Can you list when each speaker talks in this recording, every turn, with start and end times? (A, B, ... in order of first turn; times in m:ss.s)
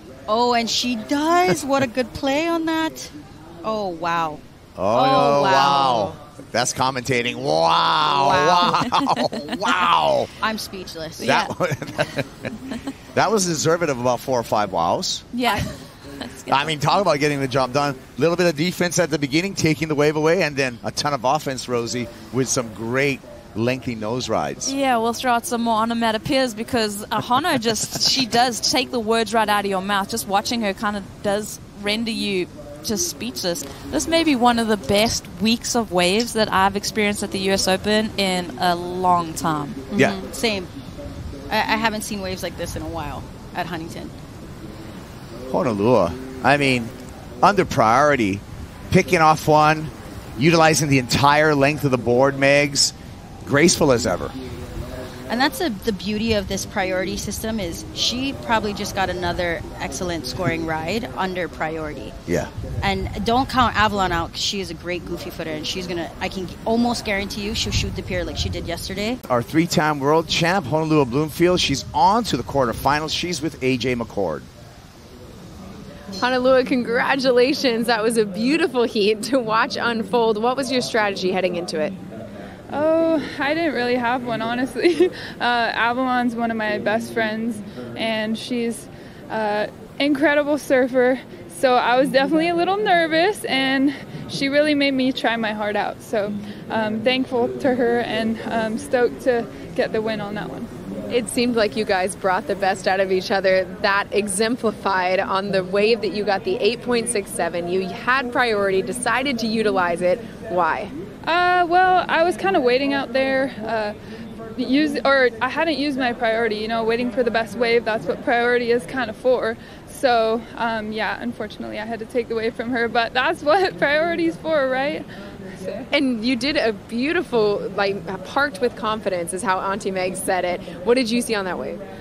0:00.3-0:04.4 A
0:04.8-0:10.3 B
0:04.9-0:06.2 A
0:08.1-0:08.8 A
0:10.4-0:11.3 A
0:11.2-0:11.5 C
0:11.2-0:12.5 B
0:13.1-0:15.3 B
0:15.3-0:16.7 C
0:16.5-0:24.7 B
0:24.6-0:39.8 C
0:39.9-0:40.7 A
0:41.5-0:44.1 A
0:45.5-0:52.9 B
0:53.4-0:54.4 B
0:55.3-1:02.1 A
1:02.8-1:09.2 A
1:09.3-1:14.5 B
1:16.2-1:22.0 D
1:22.7-1:40.7 E
1:41.1-1:50.9 D
1:51.2-1:54.0 E
1:54.6-2:05.9 E
2:05.9-2:11.8 D